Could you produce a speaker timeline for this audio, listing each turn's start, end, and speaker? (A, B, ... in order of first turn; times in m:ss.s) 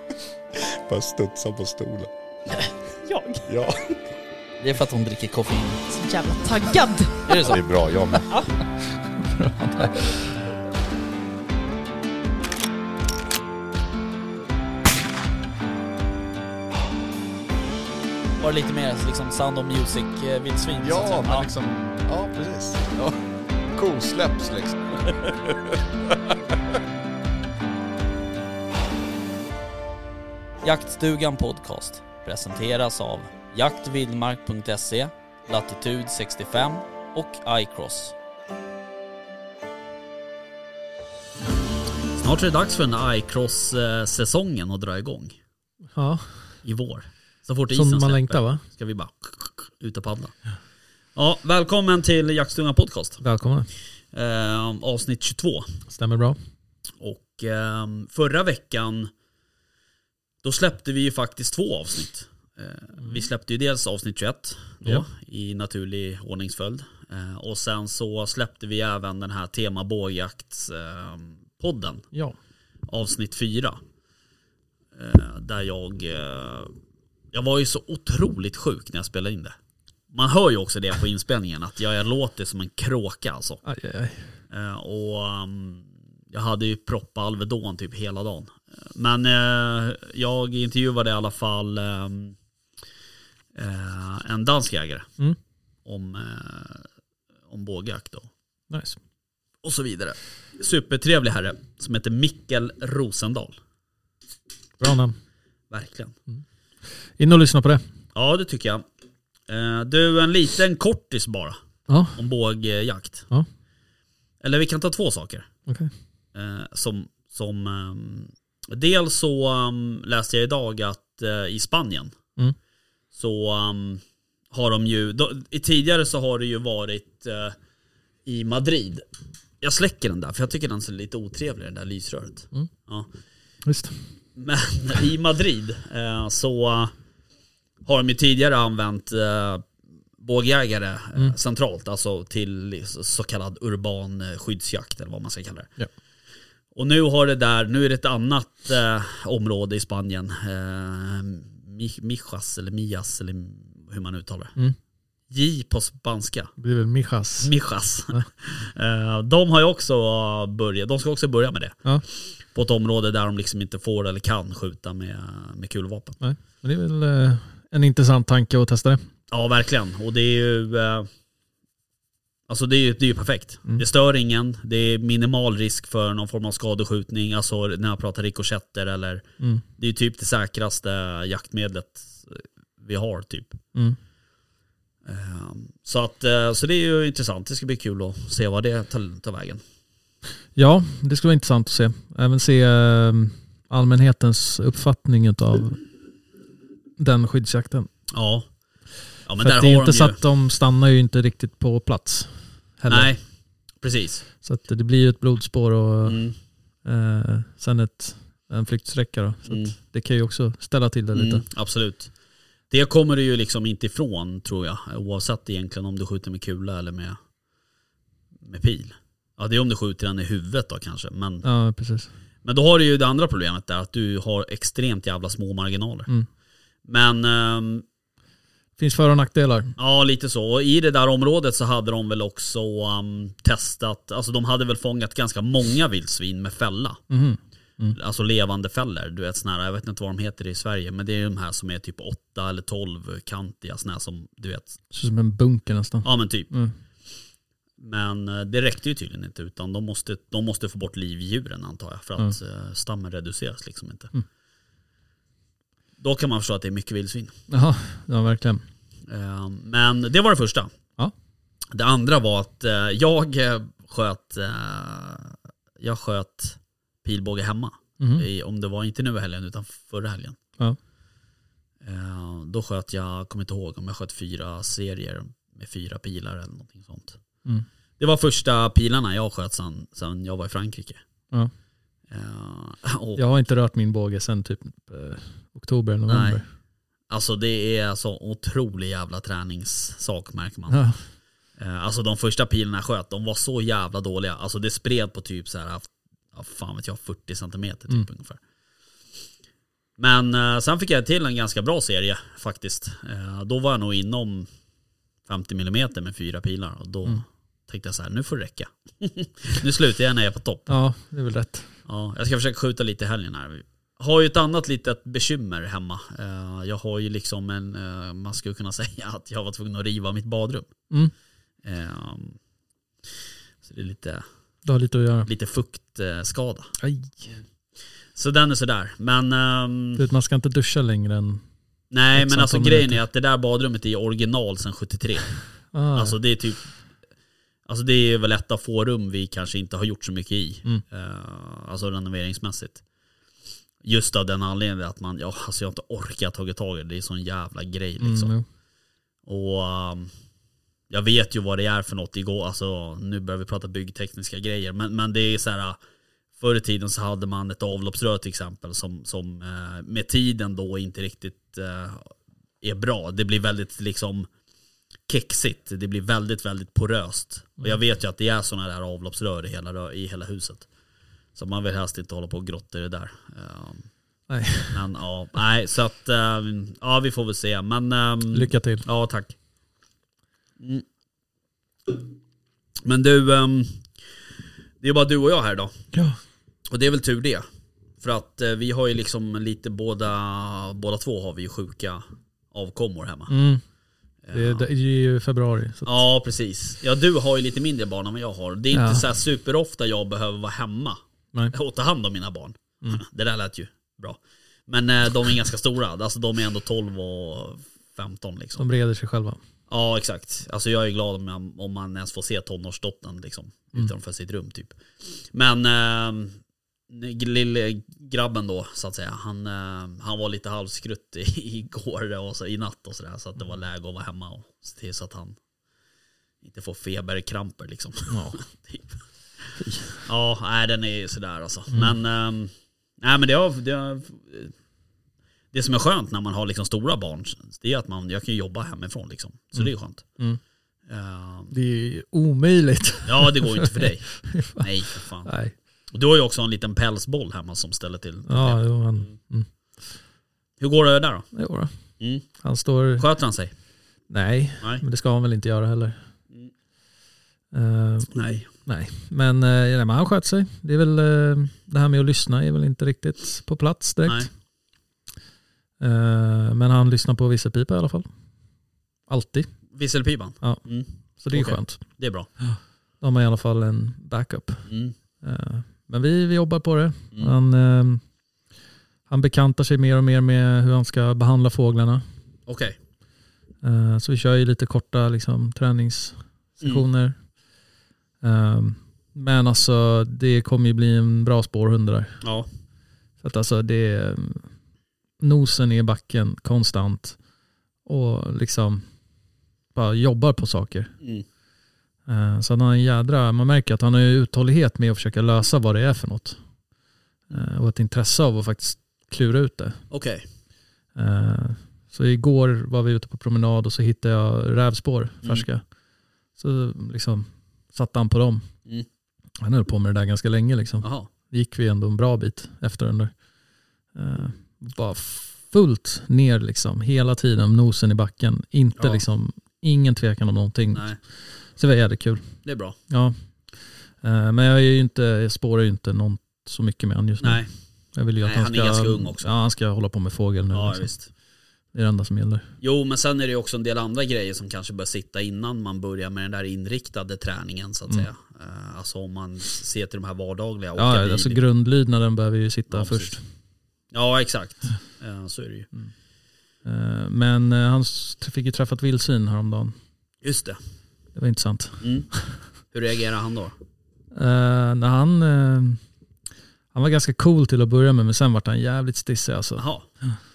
0:00.6-0:02.1 A
0:03.0-0:03.4 B
0:03.5-0:03.9 A
0:04.6-0:05.9 C
0:05.9-0:07.6 B
0:07.3-0:07.6 C
0:07.5-0:08.3 A
0:09.0-0:10.3 D
0:18.4-0:21.5 C
0:20.8-0:23.2 A
0:23.8-0:25.8 A
0:30.6-0:38.2 C
0:42.2-0:45.4 C
0:45.9-0:46.4 D
0:46.6-0:50.4 C
0:47.7-0:48.6 D
0:51.2-0:53.2 C
0:53.2-0:53.7 D
0:54.1-0:55.8 C
0:55.9-0:56.4 D
0:57.0-0:59.1 C
1:00.4-1:12.1 C
1:12.9-1:13.8 C
1:15.0-1:16.8 C
1:17.3-1:19.6 C
1:20.1-1:23.6 C
1:23.6-1:24.3 D
1:24.5-1:32.4 C
1:33.6-1:35.1 C
1:35.9-1:36.9 C
1:37.5-1:38.3 C
1:38.7-1:39.0 D
1:39.6-1:43.6 C
1:44.8-1:45.2 D
1:45.7-1:46.2 C
1:47.2-1:47.8 D
1:48.2-1:48.8 C
1:49.5-1:51.6 C
1:51.9-1:52.2 D
1:52.1-1:53.3 C
1:54.4-1:55.5 C
1:56.3-2:02.2 C
2:03.1-2:07.6 C
2:08.3-2:09.0 C
2:09.6-2:13.1 C
2:13.6-2:14.0 D
2:14.4-2:16.9 C
2:17.9-2:19.7 C
2:20.2-2:25.7 C
2:26.8-2:34.6 C
2:35.3-2:36.5 C
2:36.6-2:37.5 D
2:37.4-2:46.2 C
2:46.2-2:49.1 D
2:49.3-2:51.1 C
2:52.5-2:59.3 C
2:59.8-3:03.6 C
3:05.0-3:09.6 C
3:10.6-3:15.8 D
3:17.0-3:17.9 D
3:18.1-3:18.5 C
3:19.2-3:20.2 C
3:19.4-3:23.1 D
3:22.9-3:23.2 C
3:23.8-3:24.3 C
3:24.4-3:26.2 D
3:26.0-3:26.4 C
3:26.8-3:31.4 D
3:29.5-3:29.8 C
3:31.1-3:32.1 C
3:32.7-3:37.2 C
3:38.4-3:41.4 C
3:41.4-3:42.1 D
3:42.4-3:46.1 C
3:46.8-3:47.8 C
3:48.8-3:49.7 D
3:49.8-3:57.0 C
3:57.1-3:58.0 D
3:57.9-4:04.8 C
4:04.9-4:06.8 D
4:06.0-4:06.5 C
4:07.8-4:14.1 C
4:16.0-4:17.4 C
4:17.5-4:18.6 D
4:19.1-4:20.7 C
4:21.7-4:30.4 C
4:28.0-4:28.2 D
4:31.8-4:37.2 C
4:38.0-4:41.0 C
4:42.1-4:43.2 C
4:43.2-4:46.4 D
4:46.1-4:46.4 C
4:47.1-4:50.8 C
4:50.7-4:51.0 D
4:51.6-4:58.4 C
5:00.0-5:04.5 C
5:05.3-5:10.7 C
5:10.7-5:11.7 D
5:11.9-5:20.7 C
5:21.6-5:22.4 C
5:23.6-5:24.2 C
5:24.6-5:25.3 D
5:25.3-5:26.7 C
5:26.8-5:27.4 D
5:28.2-5:30.0 C
5:30.0-5:31.4 D
5:31.9-5:35.3 C
5:32.2-5:33.0 D
5:35.7-5:36.2 D
5:35.9-5:36.7 C
5:37.7-5:42.8 C
5:43.8-5:48.3 C
5:48.0-5:48.4 D
5:49.3-5:50.1 C
5:50.9-5:55.8 C
5:56.4-6:04.3 C
6:05.1-6:10.7 C
6:11.4-6:13.9 C
6:14.3-6:14.8 D
6:14.7-6:19.4 C
6:18.3-6:18.9 D
6:20.6-6:20.8 C
6:22.8-6:23.9 C
6:24.8-6:25.8 C
6:25.9-6:26.2 D
6:26.7-6:27.4 C
6:28.0-6:33.4 C
6:33.3-6:33.6 D
6:34.3-6:34.7 C
6:34.3-6:36.0 D
6:35.8-6:41.0 C
6:38.7-6:39.0 D
6:41.5-6:48.7 C
6:48.6-6:49.4 D
6:49.7-7:05.4 C
7:06.4-7:09.0 C
7:08.1-7:08.4 D
7:09.6-7:10.0 D
7:10.0-7:14.5 C
7:11.7-7:12.0 D
7:15.5-7:20.0 C
7:19.6-7:20.4 D
7:20.9-7:21.5 C
7:21.5-7:24.7 D
7:23.1-7:25.3 C
7:25.2-7:25.5 D
7:25.9-7:29.2 C
7:28.3-7:29.5 D
7:30.6-7:31.3 C
7:31.3-7:31.7 D
7:32.0-7:32.3 C
7:32.3-7:33.1 D
7:33.0-7:33.5 C
7:34.1-7:36.0 D
7:37.5-7:44.3 D
7:38.1-7:38.5 C
7:45.8-7:48.1 D
7:49.1-7:49.5 D
7:49.7-7:52.3 C
7:51.2-7:51.8 D
7:53.0-7:54.7 D
7:54.7-7:54.9 C
7:55.2-7:58.0 D
7:59.1-8:02.0 D
8:02.5-8:02.8 C
8:03.6-8:07.2 D
8:08.2-8:12.2 D
8:12.2-8:12.5 C
8:13.2-8:14.5 D
8:15.2-8:17.2 D
8:17.9-8:18.8 D
8:19.7-8:21.0 D
8:22.1-8:26.4 D
8:27.3-8:29.8 D
8:29.9-8:30.2 C
8:31.0-8:35.7 D
8:36.4-8:38.5 D
8:39.4-8:43.1 D
8:40.8-8:41.1 C
8:43.9-8:52.4 D
8:48.8-8:49.0 C
8:50.7-8:51.0 C
8:52.4-8:52.8 C
8:52.9-8:53.2 D
8:54.0-8:57.4 D
8:57.2-8:57.5 C
8:57.9-9:00.9 D
8:58.2-8:59.3 C
9:00.5-9:01.1 C
9:01.7-9:02.5 D
9:02.6-9:11.4 C
9:10.8-9:13.2 D
9:12.7-9:13.2 C
9:13.9-9:15.7 C
9:16.6-9:19.8 D
9:20.2-9:20.6 C
9:21.1-9:22.4 D
9:21.8-9:23.6 C
9:24.1-9:25.8 D
9:26.7-9:30.2 D
9:29.6-9:29.9 C